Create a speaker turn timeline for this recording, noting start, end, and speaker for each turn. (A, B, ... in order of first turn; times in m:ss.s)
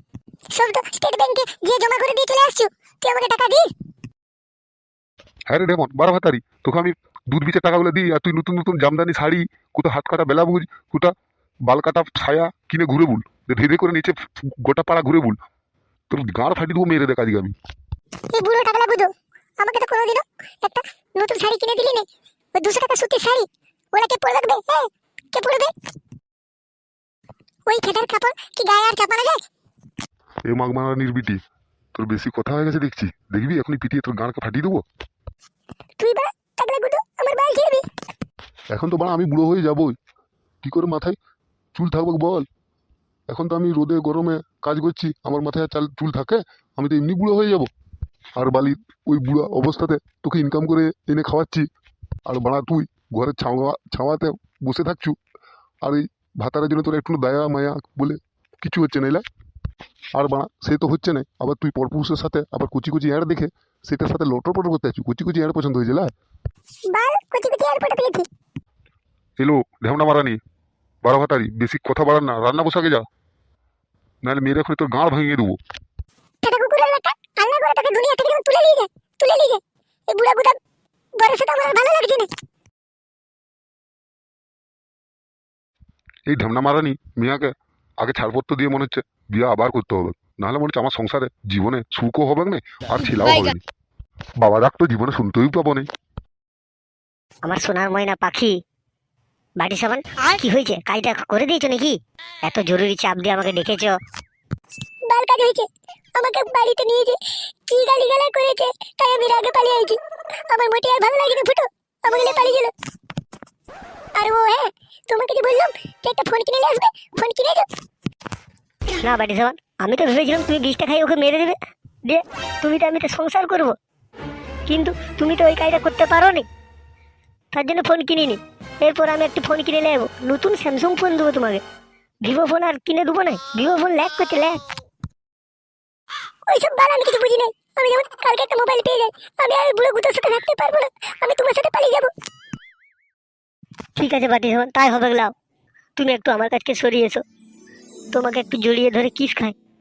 0:00.5-0:03.7 A
0:05.5-0:11.2 B
0:11.7-0:15.4 B
0:16.1-0:17.6 B
0:18.3-0:25.7 A
0:27.7-0:29.4 A
0:30.5-0:31.4 B
0:32.0-0:34.8 B
0:36.0-0:37.9 A
0:38.7-0:40.0 B
0:40.6-0:41.2 B
0:41.8-0:42.5 B
0:43.3-0:47.7 B
0:48.4-0:51.7 B
0:52.3-0:55.2 B
0:55.8-0:59.2 B
1:00.2-1:06.1 B
1:06.9-1:08.3 A
1:09.4-1:10.4 B
1:11.0-1:13.1 B
1:14.2-1:15.6 B
1:16.4-1:20.6 A
1:21.2-1:22.3 A
1:26.3-1:33.6 B
1:34.4-1:35.9 B
1:37.4-1:38.5 C
1:39.6-1:44.0 C
1:45.1-1:52.7 A
1:54.2-1:57.7 A
1:59.0-2:03.8 C
2:04.7-2:06.5 C
2:07.5-2:11.6 C
2:12.2-2:14.6 C
2:16.5-2:22.1 A
2:24.0-2:25.3 C
2:26.0-2:27.2 C
2:28.1-2:29.6 C